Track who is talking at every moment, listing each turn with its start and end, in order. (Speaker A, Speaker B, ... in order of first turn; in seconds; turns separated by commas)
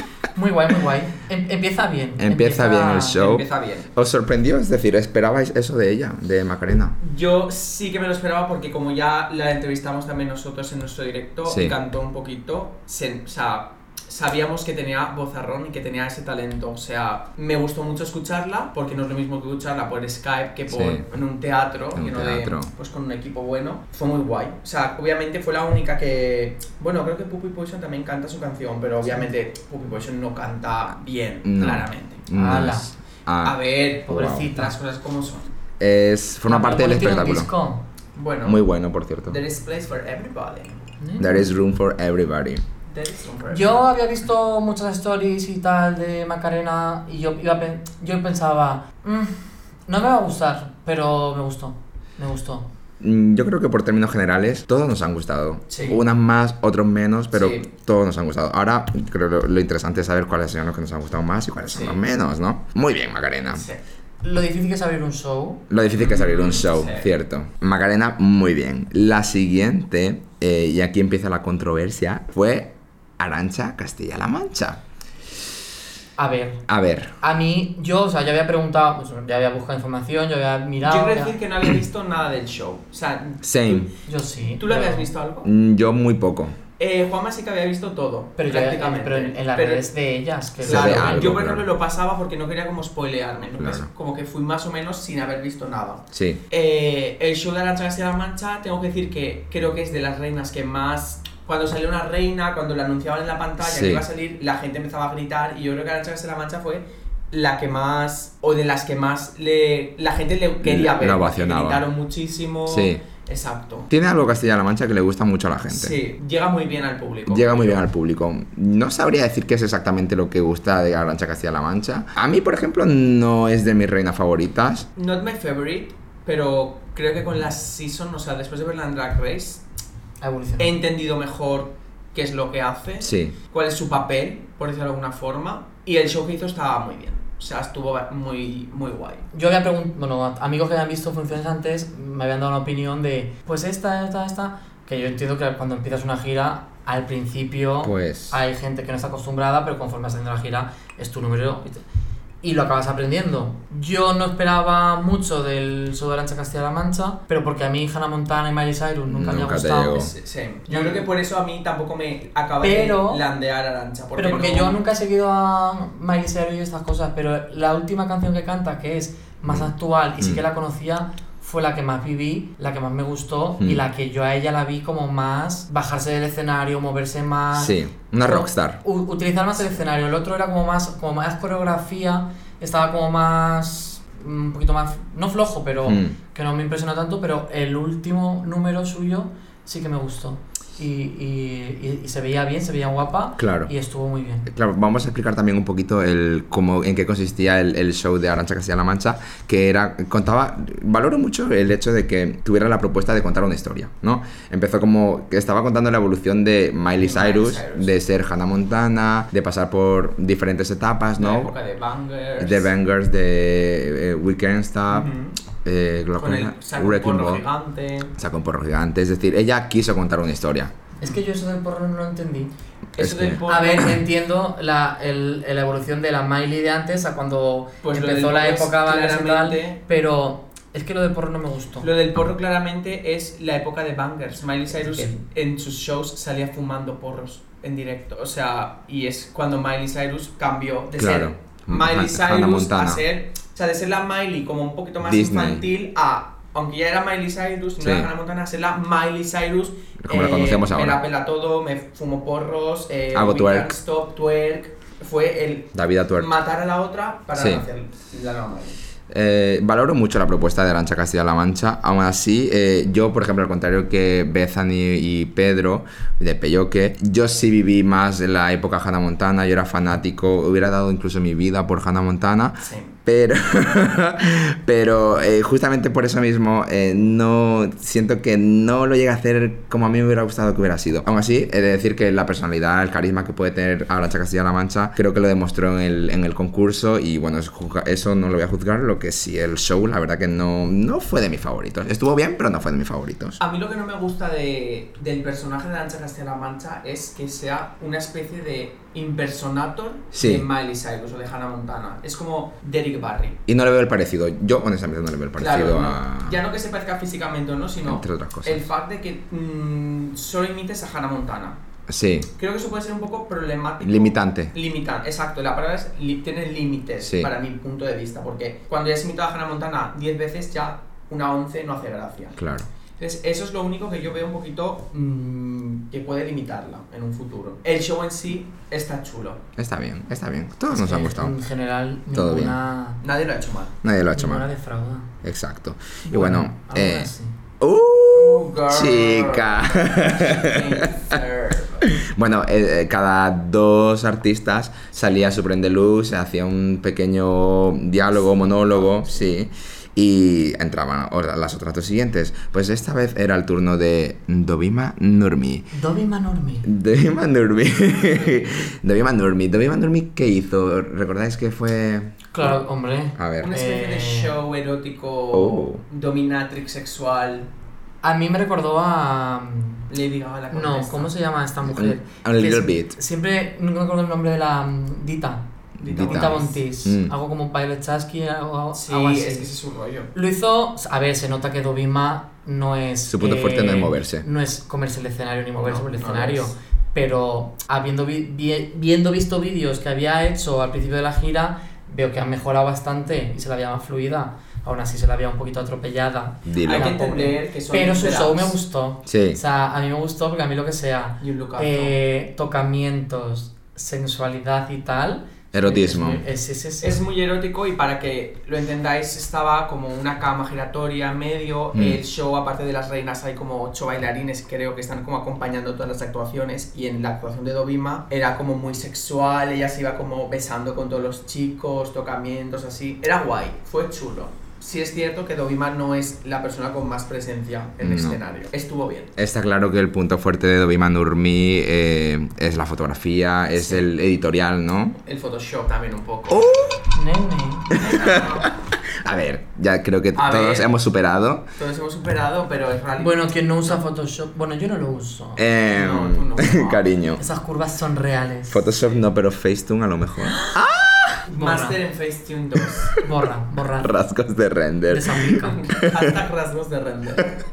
Speaker A: 0.3-3.2, Speaker B: 2.2-7.0, Speaker C: 3.1-3.9, Speaker C: 7.0-32.2, Speaker B: 11.4-11.8, Speaker B: 20.7-21.1, Speaker B: 21.9-22.7, Speaker B: 31.4-34.6, Speaker A: 32.3-32.9, Speaker C: 33.4-35.5, Speaker A: 34.1-34.8, Speaker B: 35.8-37.5, Speaker A: 36.5-37.9, Speaker C: 38.1-38.6, Speaker B: 38.4-39.4, Speaker C: 39.3-40.8, Speaker A: 41.0-41.5, Speaker B: 41.2-42.6, Speaker C: 42.9-43.9, Speaker A: 43.5-52.7, Speaker B: 53.0-63.7, Speaker A: 55.7-56.0, Speaker C: 57.3-57.7, Speaker C: 61.7-62.0, Speaker C: 63.5-63.8, Speaker A: 64.2-65.6, Speaker B: 65.7-74.8, Speaker C: 65.9-67.1, Speaker A: 76.2-76.6, Speaker B: 76.7-77.1, Speaker A: 77.2-81.4, Speaker C: 80.8-83.9, Speaker B: 83.4-83.9, Speaker A: 84.1-85.1, Speaker C: 84.6-85.5, Speaker B: 85.4-86.6, Speaker C: 86.8-89.9, Speaker A: 88.4-91.3, Speaker C: 90.6-113.9, Speaker B: 90.6-91.7, Speaker B: 93.5-93.9, Speaker B: 96.1-96.4, Speaker B: 103.6-104.0, Speaker B: 110.6-111.9, Speaker B: 112.7-113.0, Speaker B: 113.9-116.0, Speaker C: 115.7-117.8, Speaker B: 117.3-124.9, Speaker C: 125.0-129.6, Speaker A: 130.2-130.8, Speaker C: 130.6-139.3, Speaker B: 133.0-133.4, Speaker A: 139.3-151.8, Speaker B: 147.8-148.4, Speaker A: 152.4-160.1, Speaker B: 159.1-160.1, Speaker C: 159.9-164.8, Speaker A: 160.7-161.1, Speaker A: 162.6-163.2, Speaker A: 164.2-194.5, Speaker B: 169.5-170.4, Speaker B: 177.5-178.8, Speaker B: 185.9-186.2, Speaker B: 193.4-193.7, Speaker B: 194.5-211.5, Speaker C: 207.0-208.0, Speaker C: 211.2-212.7, Speaker B: 212.4-215.1, Speaker C: 214.9-215.4, Speaker B: 215.6-217.4, Speaker C: 216.2-218.1, Speaker B: 218.2-220.7, Speaker A: 221.0-222.5, Speaker C: 223.0-224.0, Speaker B: 223.0-223.9, Speaker A: 223.5-231.9, Speaker C: 227.8-229.8, Speaker C: 231.8-258.8, Speaker A: 234.7-235.2, Speaker B: 241.0-243.0, Speaker B: 245.0-245.7, Speaker B: 247.8-248.1, Speaker B: 250.0-251.0, Speaker B: 253.1-253.7, Speaker B: 255.7-256.3, Speaker B: 257.4-257.6, Speaker B: 259.1-293.4, Speaker C: 272.6-272.9, Speaker C: 293.4-303.4, Speaker B: 300.1-300.5, Speaker B: 303.5-306.4, Speaker C: 305.4-311.6, Speaker B: 307.8-308.7, Speaker B: 311.9-312.3, Speaker C: 312.4-322.4, Speaker B: 313.8-314.5, Speaker B: 317.0-317.3, Speaker B: 322.4-322.7, Speaker C: 323.0-329.4, Speaker B: 329.6-331.4, Speaker A: 330.7-333.0, Speaker B: 332.1-332.6, Speaker C: 333.0-333.8, Speaker B: 333.8-334.5, Speaker A: 334.1-335.1, Speaker B: 335.2-341.2, Speaker A: 336.1-337.3, Speaker C: 338.1-341.9, Speaker B: 341.8-355.7, Speaker C: 348.5-349.2, Speaker A: 355.7-356.7, Speaker B: 356.6-362.3, Speaker A: 362.3-364.4, Speaker B: 363.2-363.5, Speaker C: 363.4-367.5, Speaker B: 365.3-365.8, Speaker A: 368.0-369.9, Speaker C: 369.9-371.1, Speaker A: 370.5-375.5, Speaker B: 371.6-373.0, Speaker C: 375.8-376.6, Speaker B: 375.8-377.1, Speaker A: 376.0-379.5, Speaker C: 378.7-380.1, Speaker A: 380.1-407.0, Speaker B: 383.1-384.2, Speaker C: 385.6-386.5, Speaker B: 396.5-396.9, Speaker C: 396.6-398.6, Speaker B: 399.1-399.4, Speaker C: 401.2-402.0, Speaker B: 405.5-406.2, Speaker C: 406.8-429.1, Speaker B: 411.7-412.0, Speaker B: 427.8-428.2, Speaker B: 429.2-435.0, Speaker C: 435.0-436.6, Speaker B: 436.3-436.8, Speaker A: 436.9-437.8, Speaker C: 437.7-438.6, Speaker B: 437.7-441.4, Speaker C: 440.1-440.7, Speaker C: 441.6-443.8, Speaker A: 443.0-445.5, Speaker B: 445.4-447.2, Speaker C: 445.7-446.9, Speaker A: 447.2-448.6, Speaker B: 448.5-451.2, Speaker A: 451.3-451.8, Speaker C: 451.3-453.0, Speaker A: 453.0-454.0, Speaker B: 453.8-456.2, Speaker A: 454.9-455.7, Speaker C: 455.4-457.3